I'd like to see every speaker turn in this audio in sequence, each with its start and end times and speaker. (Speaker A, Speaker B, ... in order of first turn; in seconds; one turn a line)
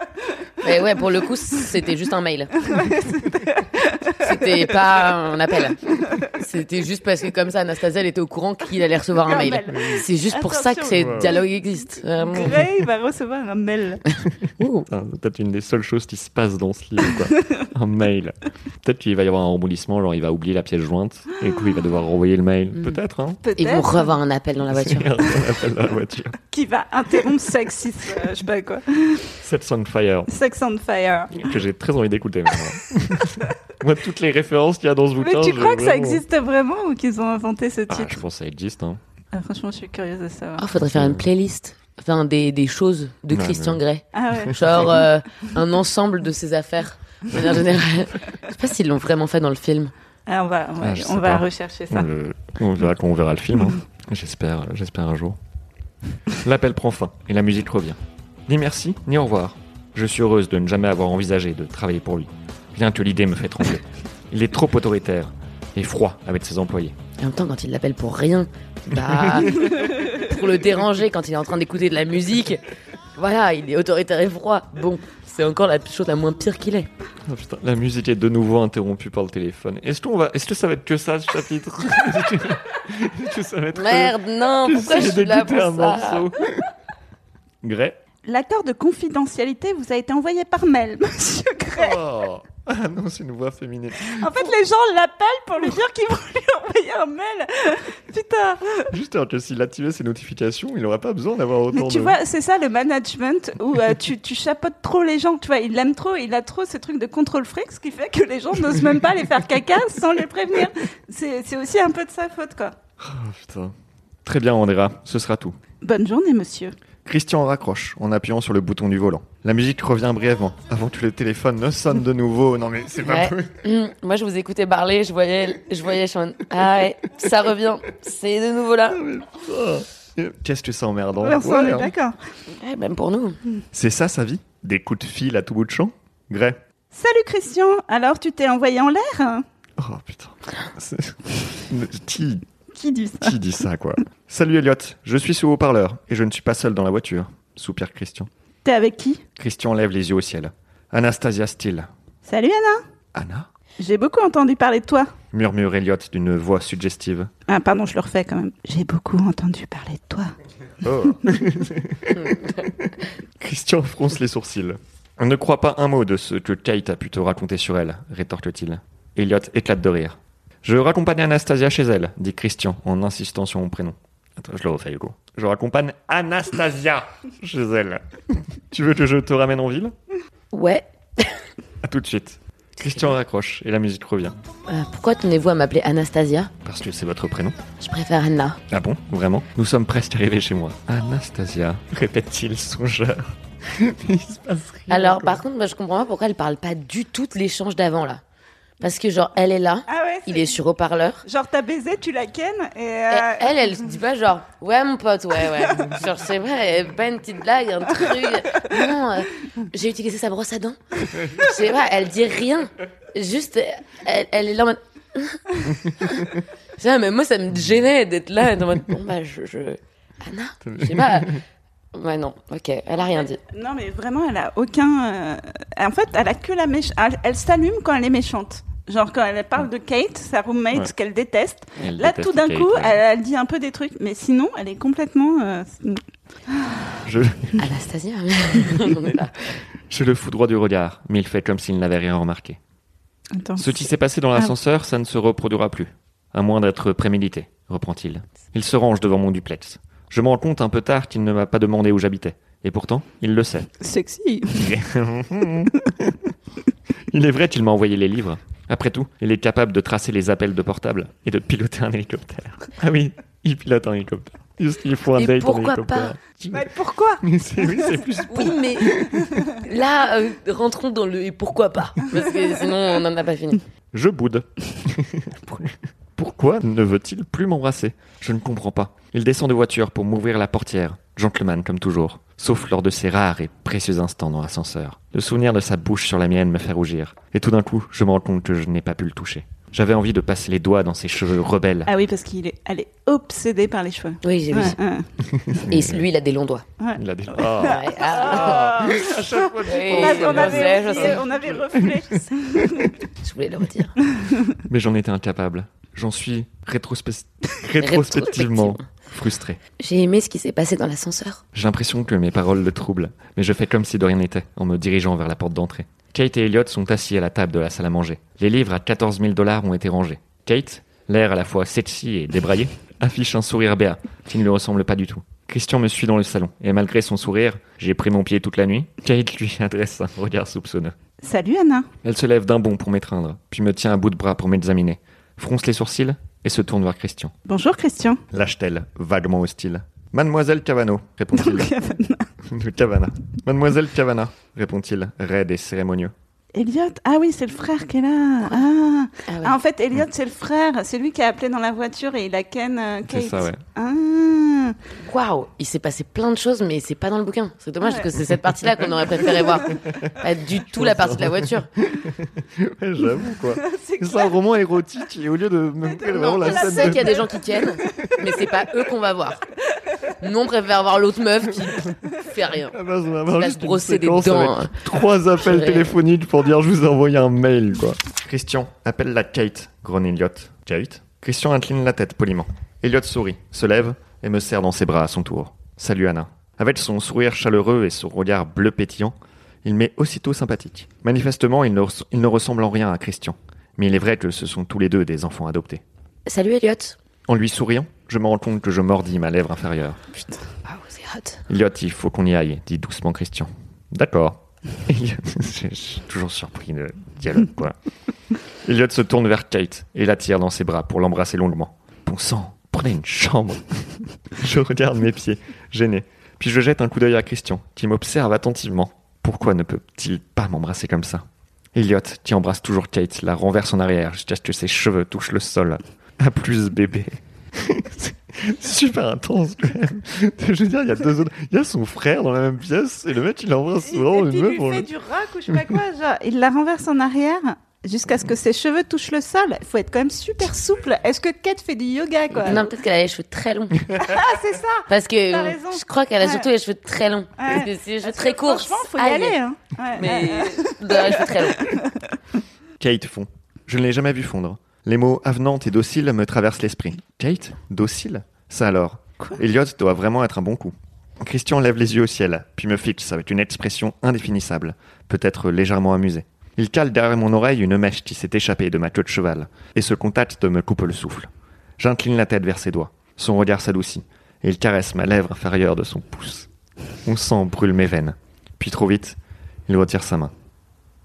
Speaker A: 0.6-2.5
Speaker B: 2.6-4.7
Speaker A: 4.2-12.6
Speaker B: 9.2-11.4
Speaker C: 9.7-10.0
Speaker C: 10.9-11.3
Speaker B: 12.2-14.0
Speaker A: 14.6-14.9
Speaker C: 14.9-23.4
Speaker B: 23.4-24.2
Speaker A: 23.6-25.3
Speaker C: 24.7-26.4
Speaker B: 26.5-29.3
Speaker C: 29.4-30.3
Speaker B: 30.3-31.5
Speaker C: 31.3-36.2
Speaker B: 35.2-38.2
Speaker C: 37.9-39.0
Speaker B: 39.3-40.6
Speaker A: 40.6-49.9
Speaker C: 40.8-41.2
Speaker C: 43.3-43.8
Speaker B: 44.1-45.0
Speaker B: 50.3-52.1
Speaker C: 50.8-55.4
Speaker C: 56.3-67.0
Speaker A: 67.2-72.6
Speaker C: 69.0-69.7
Speaker A: 73.2-76.9
Speaker C: 77.3-86.7
Speaker A: 83.7-86.3
Speaker C: 87.6-88.0
Speaker B: 88.2-92.0
Speaker C: 91.7-94.3
Speaker B: 94.0-98.9
Speaker C: 98.9-102.2
Speaker B: 101.7-112.8
Speaker C: 113.0-113.7
Speaker C: 114.2-115.6
Speaker B: 115.8-116.7
Speaker C: 117.0-123.6
Speaker A: 123.0-129.0
Speaker C: 128.9-131.9
Speaker B: 131.2-132.2
Speaker A: 132.5-133.4
Speaker C: 133.7-136.6
Speaker B: 136.9-139.4
Speaker C: 139.8-142.4
Speaker B: 142.7-143.3
Speaker C: 143.2-148.3
Speaker B: 148.6-149.2
Speaker C: 149.4-151.9
Speaker B: 152.2-152.8
Speaker C: 153.1-153.5
Speaker B: 153.8-155.1
Speaker C: 155.3-157.3
Speaker B: 157.5-160.3
Speaker C: 160.8-178.0
Speaker C: 178.7-179.9
Speaker A: 180.5-181.4
Speaker C: 181.8-184.4
Speaker A: 184.7-186.5
Speaker C: 186.6-187.6
Speaker A: 187.8-188.6
Speaker C: 188.7-195.4
Speaker A: 194.9-198.2
Speaker A: 198.8-201.2
Speaker B: 199.9-200.6
Speaker B: 201.2-203.6
Speaker A: 203.1-221.4
Speaker C: 220.6-221.4
Speaker A: 221.9-223.4
Speaker B: 223.1-236.8
Speaker C: 231.8-233.0
Speaker C: 237.0-237.6
Speaker A: 237.6-239.6
Speaker C: 239.9-242.6
Speaker B: 243.3-244.5
Speaker C: 243.6-253.7
Speaker B: 253.8-254.7
Speaker C: 254.5-256.2
Speaker C: 257.1-266.7
Speaker A: 265.1-266.1
Speaker B: 266.5-267.9
Speaker C: 267.2-269.4
Speaker A: 268.3-273.6
Speaker C: 273.9-291.9
Speaker B: 291.9-295.1
Speaker A: 294.2-294.8
Speaker C: 295.3-296.0
Speaker A: 295.7-296.6
Speaker B: 296.8-302.9
Speaker C: 296.9-302.2
Speaker A: 297.6-299.0
Speaker A: 299.6-301.2
Speaker A: 303.2-303.9
Speaker B: 304.1-304.4
Speaker C: 304.6-309.6
Speaker A: 307.8-308.9
Speaker A: 309.8-311.4
Speaker C: 311.5-330.9
Speaker B: 331.2-331.9
Speaker C: 332.0-337.3
Speaker B: 337.5-338.2
Speaker C: 338.3-341.7
Speaker B: 341.3-342.3
Speaker C: 342.4-346.1
Speaker B: 346.5-354.8
Speaker A: 349.3-349.6
Speaker C: 353.1-353.6
Speaker A: 355.0-361.7
Speaker B: 357.8-358.1
Speaker C: 360.7-367.2
Speaker B: 363.6-364.3
Speaker A: 366.0-369.4
Speaker B: 366.4-367.3
Speaker A: 370.2-372.8
Speaker C: 372.7-395.8
Speaker A: 373.3-374.8
Speaker A: 375.4-376.0
Speaker A: 396.2-397.0
Speaker C: 397.3-400.0
Speaker A: 400.6-401.4
Speaker C: 401.5-407.7
Speaker C: 408.6-421.2
Speaker C: 421.7-434.9
Speaker B: 433.9-442.6
Speaker C: 435.5-435.7
Speaker A: 442.3-444.0
Speaker B: 444.0-446.5
Speaker A: 444.9-449.4
Speaker B: 447.4-452.1
Speaker A: 449.9-451.8
Speaker C: 452.8-476.5
Speaker C: 477.0-480.3